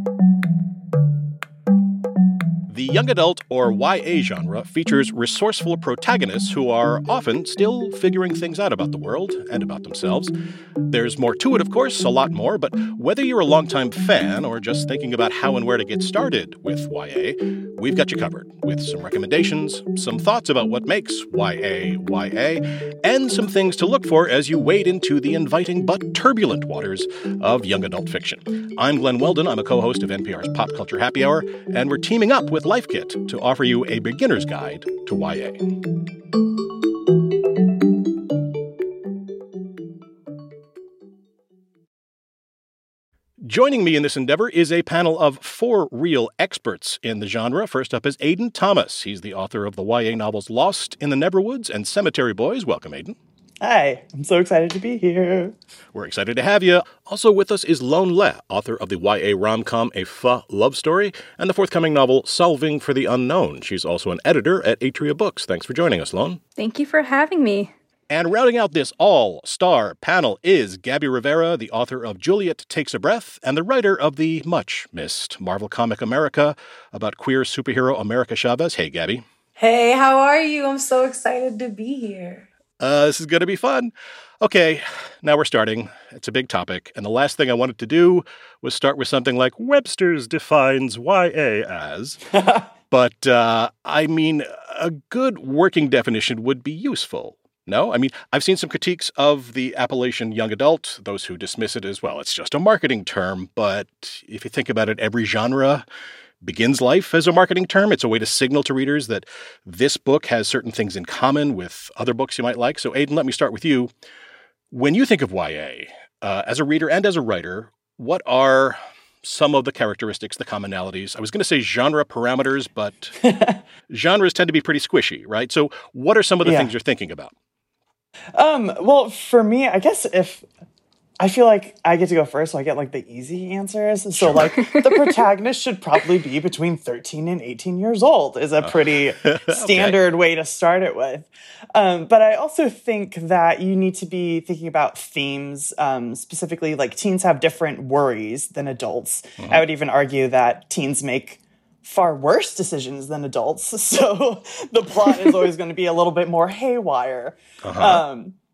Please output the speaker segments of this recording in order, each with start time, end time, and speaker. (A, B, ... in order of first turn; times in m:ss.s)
0:02.7-0:10.3 A
0:10.9-0:35.6 A
0:43.5-0:53.2 A
0:53.6-0:55.6 B
0:55.9-1:06.4 A
1:06.6-1:07.7 C
1:08.1-1:19.2 A
1:19.6-1:22.5 D
1:22.8-1:32.2 A
1:32.4-1:32.6 B
1:32.9-1:45.9 A
1:46.4-1:53.9 A
1:54.7-2:03.2 A
2:03.2-2:03.6 B
2:03.9-2:07.3 A
2:06.4-2:06.7 B
2:08.3-2:10.5 B
2:11.2-2:38.4 B
2:14.4-2:15.2 C
2:18.6-2:20.0 A
2:29.4-2:29.6 A
2:37.6-2:38.0 A